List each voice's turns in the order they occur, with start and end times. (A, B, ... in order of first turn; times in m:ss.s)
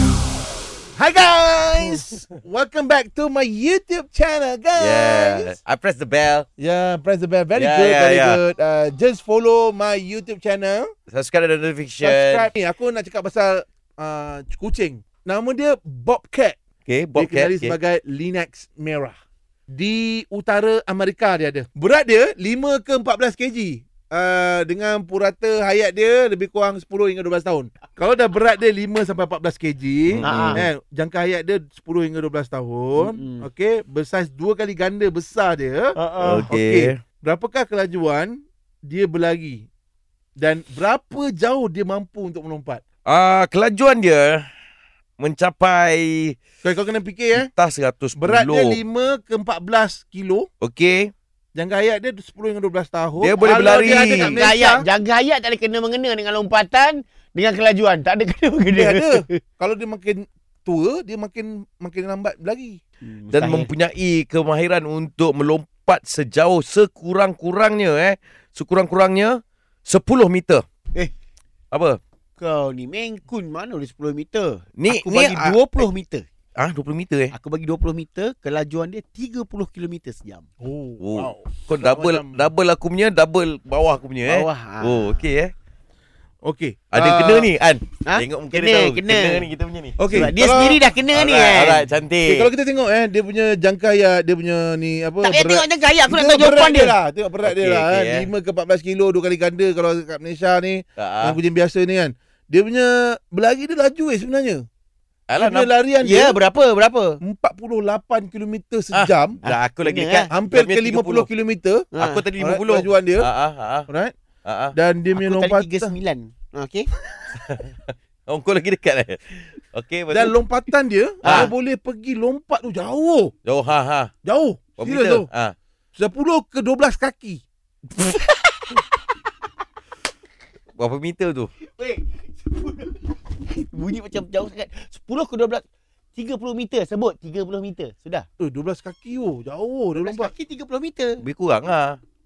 0:01.0-0:05.6 A
0:04.8-0:06.5 B
0:06.6-0:10.9 A
0:07.6-0:08.4 B
0:11.1-0:12.5 B
0:12.0-0:16.6 A
0:16.8-0:17.8 B
0:17.2-0:19.1 A
0:19.7-0:39.7 A
0:30.1-0:30.6 B
0:30.2-0:30.6 C
0:33.0-0:33.4 C
0:36.0-0:36.5 C
0:36.2-0:37.0 B
0:40.4-0:42.8 A
0:43.0-0:44.4 B
0:45.2-0:46.4 B
0:46.6-0:47.5 A
0:47.3-0:48.8 B
0:48.2-0:50.5 A
0:50.6-0:51.1 B
0:51.5-0:54.8 A
0:53.2-0:54.4 B
0:53.4-0:59.4 C
0:58.7-1:02.8 A
1:03.0-1:03.7 C
1:03.3-1:10.6 B
1:11.7-1:12.0 B
1:12.4-1:16.2 C
1:14.8-1:15.9 B
1:16.6-1:17.3 B
1:17.3-1:20.4 C
1:20.6-1:22.5 A
1:21.0-1:25.5 B
1:24.2-1:25.2 C
1:26.4-1:27.5 A
1:26.9-1:30.0 B
1:28.0-1:29.5 C
1:30.0-1:30.8 A
1:30.1-1:31.9 C
1:31.1-1:32.5 B
1:32.2-1:44.6 A
1:35.2-1:37.0 C
1:37.4-1:38.3 B
1:41.0-1:41.4 B
1:45.3-1:45.7 B
1:45.4-1:46.4 A
1:46.0-1:47.2 C
1:47.2-1:49.4 A
1:48.9-1:51.3 B
1:49.4-1:50.3 C
1:50.3-1:53.3 A
1:51.9-1:52.2 C
1:52.0-1:53.9 B
1:53.9-1:54.1 A
1:54.4-1:54.8 B
1:54.7-1:55.9 A
1:55.1-1:56.9 C
1:57.3-2:00.4 B
2:00.1-2:03.3 A
2:01.2-2:01.5 C
2:01.2-2:01.5 B
2:03.4-2:04.1 B
2:04.2-2:05.3 A
2:04.8-2:05.5 B
2:05.9-2:07.4 A
2:10.8-2:11.5 B
2:11.6-2:15.6 C
2:16.1-2:18.2 C
2:18.4-2:20.3 A
2:20.0-2:21.2 C
2:21.2-2:22.0 B